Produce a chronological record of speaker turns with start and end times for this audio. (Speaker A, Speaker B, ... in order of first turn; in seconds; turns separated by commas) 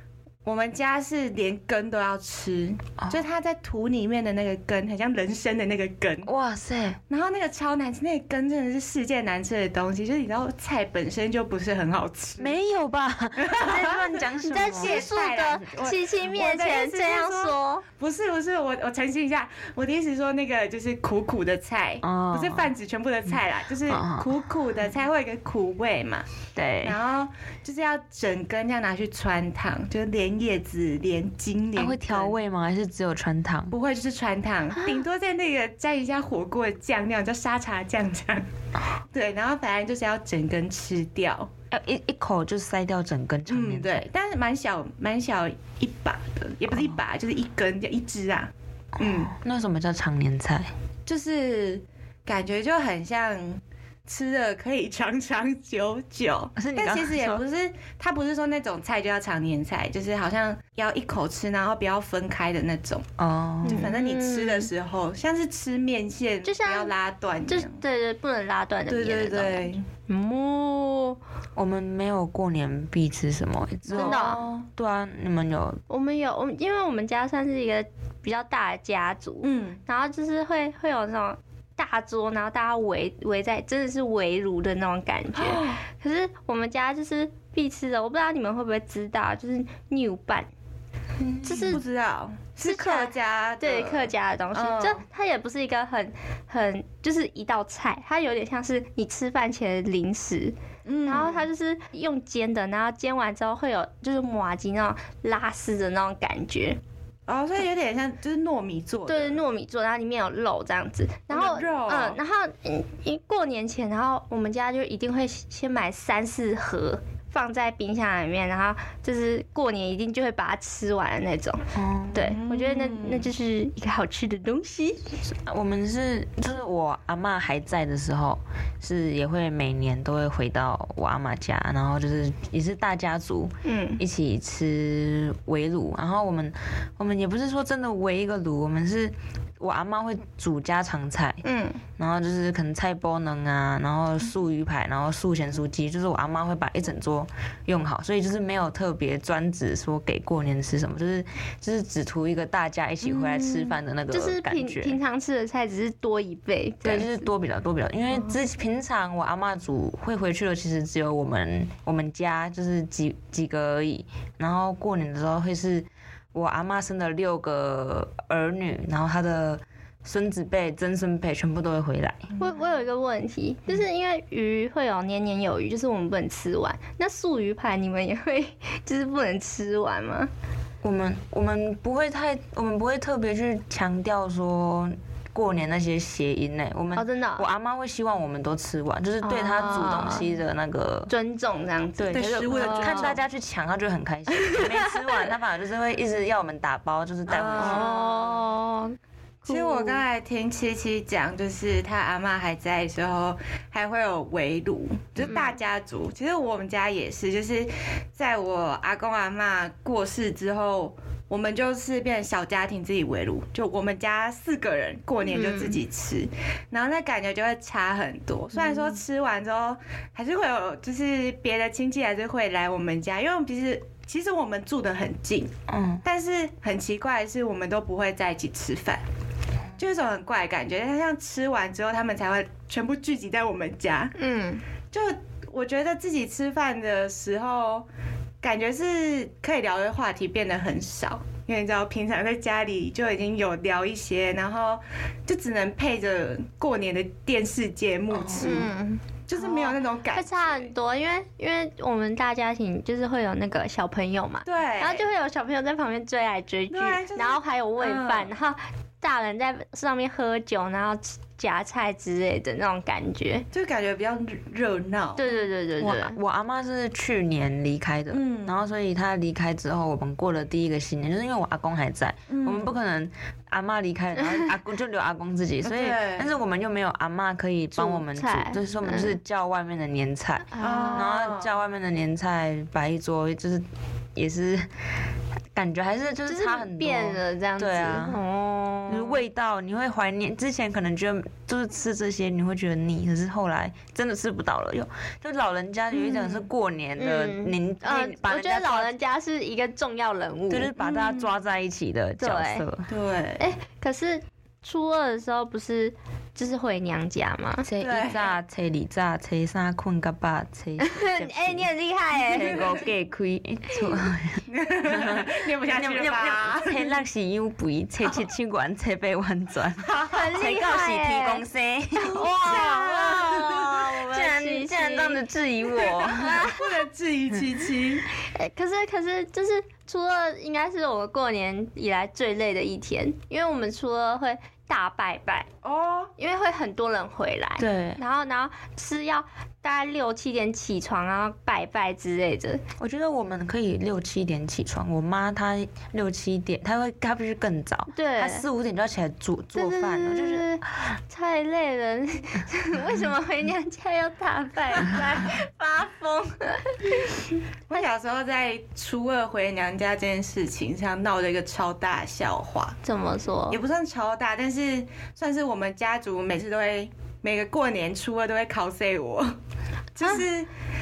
Speaker A: 0.4-6.3, Speaker B: 6.2-7.0, Speaker A: 7.1-12.5, Speaker B: 12.4-15.0, Speaker A: 13.4-26.3, Speaker C: 14.4-17.9, Speaker B: 22.0-22.7, Speaker B: 23.9-24.3, Speaker B: 26.5-27.0, Speaker A: 26.8-32.3, Speaker B: 31.7-33.8, Speaker A: 33.7-38.4, Speaker A: 39.1-41.5, Speaker B: 41.7-44.0, Speaker A: 43.5-49.3, Speaker B: 49.0-50.7, Speaker A: 51.0-63.1, Speaker B: 56.6-57.4, Speaker B: 63.2-63.9, Speaker A: 63.6-67.8, Speaker C: 63.6-64.7, Speaker C: 66.4-66.9, Speaker C: 67.5-71.2, Speaker A: 68.9-69.8, Speaker B: 71.5-75.8, Speaker A: 73.9-74.7, Speaker C: 73.9-74.4, Speaker C: 75.9-90.5, Speaker A: 79.4-79.8, Speaker A: 85.3-85.8, Speaker B: 91.2-91.8, Speaker C: 91.4-91.8, Speaker A: 91.6-95.0, Speaker C: 92.6-100.5, Speaker A: 100.8-101.4, Speaker C: 101.1-106.8, Speaker A: 107.3-109.4, Speaker C: 109.1-125.1, Speaker A: 111.3-112.2, Speaker B: 121.7-122.4, Speaker A: 122.1-123.3, Speaker B: 125.2-141.4, Speaker C: 133.7-134.0, Speaker C: 141.4-141.8, Speaker B: 142.0-155.0, Speaker A: 153.1-153.6, Speaker C: 154.1-157.3, Speaker B: 156.8-172.3, Speaker C: 172.4-180.3, Speaker B: 180.8-191.1, Speaker C: 186.9-187.5, Speaker C: 189.2-190.3, Speaker C: 191.1-193.2, Speaker B: 192.0-197.9, Speaker A: 192.1-193.2, Speaker C: 194.4-194.9, Speaker A: 197.3-198.4, Speaker C: 197.6-200.0, Speaker A: 199.4-225.5, Speaker C: 215.2-215.8, Speaker C: 218.6-218.9, Speaker B: 225.7-226.0, Speaker A: 226.0-229.0, Speaker A: 229.8-234.1, Speaker C: 234.2-234.6, Speaker A: 234.9-237.8, Speaker A: 238.4-248.7, Speaker B: 248.1-248.7, Speaker C: 248.4-263.5, Speaker A: 249.3-250.7, Speaker A: 254.4-255.1, Speaker A: 256.7-258.3, Speaker A: 263.5-265.3, Speaker C: 265.2-266.2, Speaker B: 265.8-284.7, Speaker A: 268.1-268.6, Speaker A: 272.3-272.7, Speaker C: 274.2-274.5, Speaker A: 275.6-276.3, Speaker C: 277.8-279.2, Speaker C: 280.5-281.1, Speaker A: 280.6-281.5, Speaker B: 285.5-288.2, Speaker C: 286.3-289.2, Speaker B: 288.9-298.9, Speaker A: 295.9-296.5, Speaker C: 297.0-300.7, Speaker B: 300.5-302.9, Speaker A: 300.8-301.3, Speaker C: 302.2-302.6, Speaker A: 302.9-303.4, Speaker C: 303.4-307.7, Speaker B: 307.6-326.4, Speaker A: 307.8-308.3, Speaker C: 310.8-312.7, Speaker A: 312.4-312.7, Speaker A: 314.4-316.9, Speaker A: 319.8-320.1, Speaker C: 320.1-321.4, Speaker C: 321.9-326.8, Speaker A: 322.4-323.7, Speaker A: 326.4-328.1, Speaker C: 328.1-335.5, Speaker A: 335.6-336.1, Speaker C: 336.2-342.6, Speaker B: 337.6-338.0, Speaker B: 342.8-350.5, Speaker C: 347.9-348.4, Speaker C: 349.5-357.1, Speaker A: 357.7-362.8, Speaker C: 362.8-363.6, Speaker A: 363.5-369.4, Speaker A: 369.9-370.5